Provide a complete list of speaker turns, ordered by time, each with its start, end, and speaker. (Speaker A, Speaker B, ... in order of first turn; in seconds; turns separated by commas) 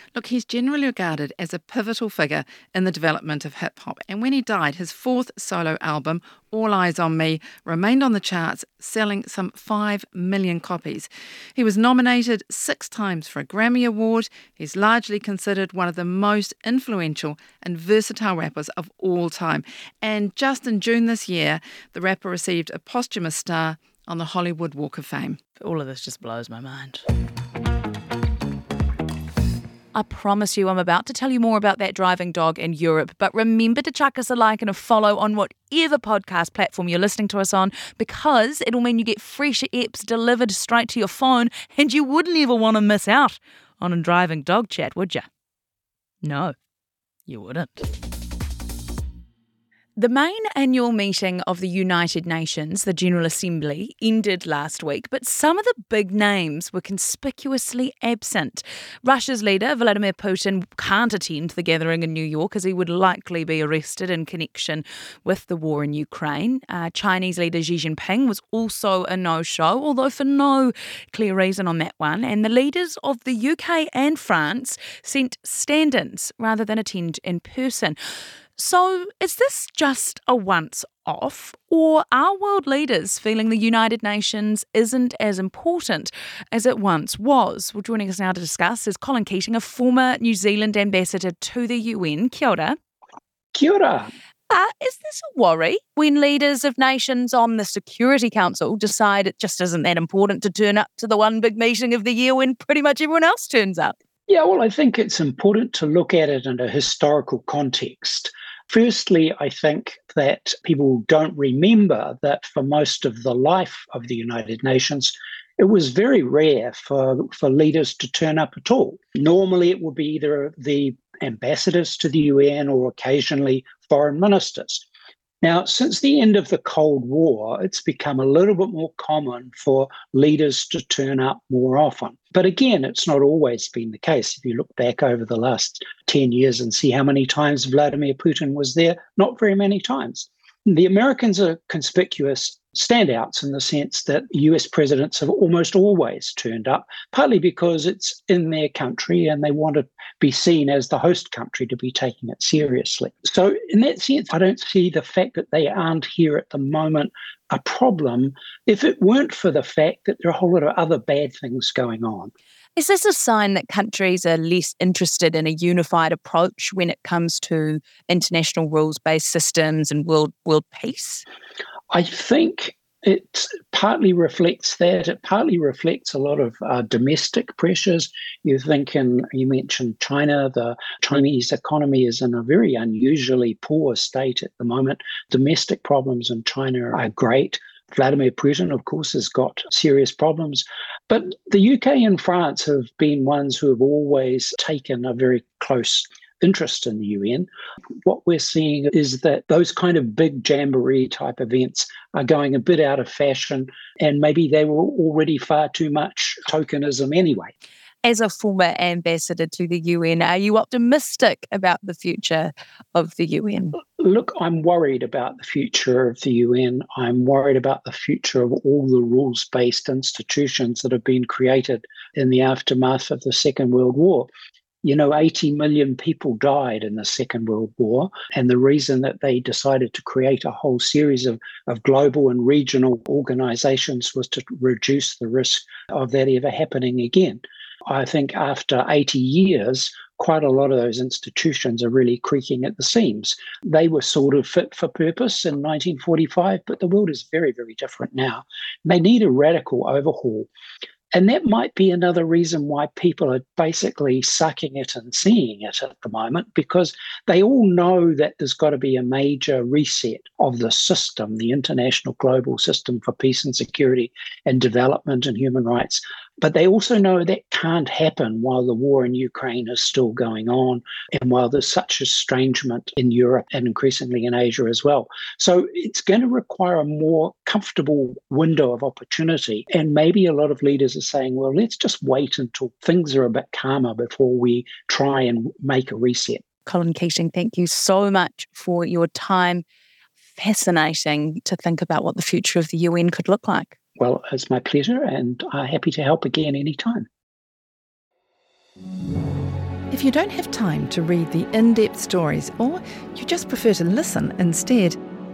Speaker A: 0.1-25.4, Speaker B: 25.6-27.0, Speaker B: 29.9-45.3, Speaker B: 46.2-46.5, Speaker B: 47.3-47.9, Speaker B: 50.0-78.0, Speaker B: 78.6-92.8, Speaker C: 93.5-94.1, Speaker B: 94.5-104.0, Speaker C: 104.3-124.8, Speaker C: 125.4-162.3, Speaker B: 162.8-171.2, Speaker C: 171.9-197.5, Speaker C: 198.1-207.5, Speaker B: 208.0-213.8, Speaker C: 213.8-224.3, Speaker C: 224.8-250.5, Speaker C: 251.1-286.4, Speaker B: 286.7-289.6, Speaker B: 290.4-293.8, Speaker C: 294.0-297.1, Speaker A: 299.9-305.0